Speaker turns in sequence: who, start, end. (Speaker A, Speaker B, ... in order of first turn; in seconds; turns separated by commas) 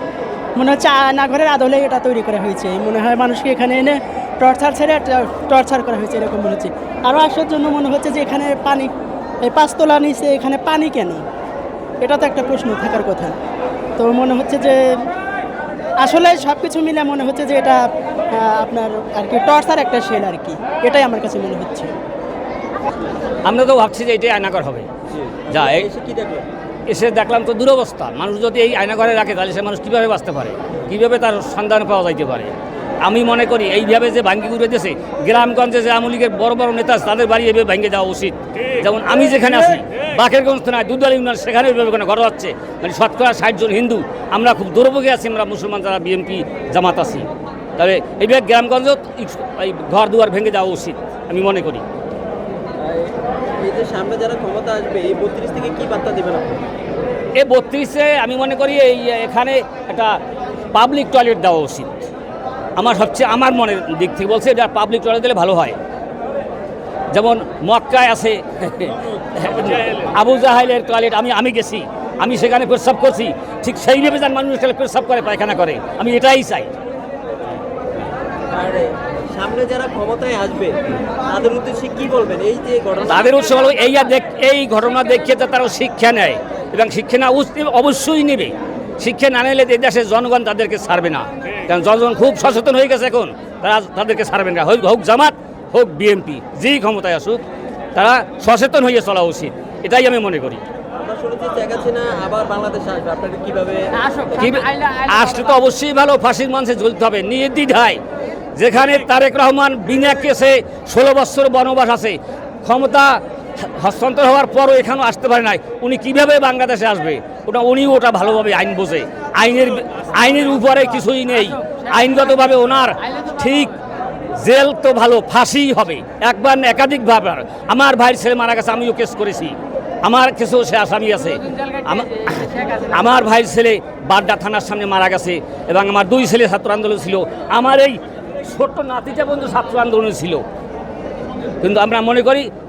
Speaker A: 0.5-8.9, Speaker A: 9.4-11.2, Speaker A: 12.0-13.3, Speaker A: 14.0-15.1, Speaker A: 16.0-21.9, Speaker B: 23.4-24.9, Speaker C: 25.1-26.5, Speaker B: 25.5-25.9, Speaker B: 26.9-51.8, Speaker C: 52.8-56.6, Speaker B: 57.4-60.2, Speaker B: 60.7-62.1, Speaker B: 62.8-65.8, Speaker B: 67.1-76.7, Speaker C: 78.5-83.5, Speaker B: 83.1-97.4, Speaker B: 97.9-100.6, Speaker C: 101.0-104.3, Speaker B: 104.3-108.0, Speaker B: 108.5-123.8, Speaker B: 124.3-140.4, Speaker B: 141.6-142.5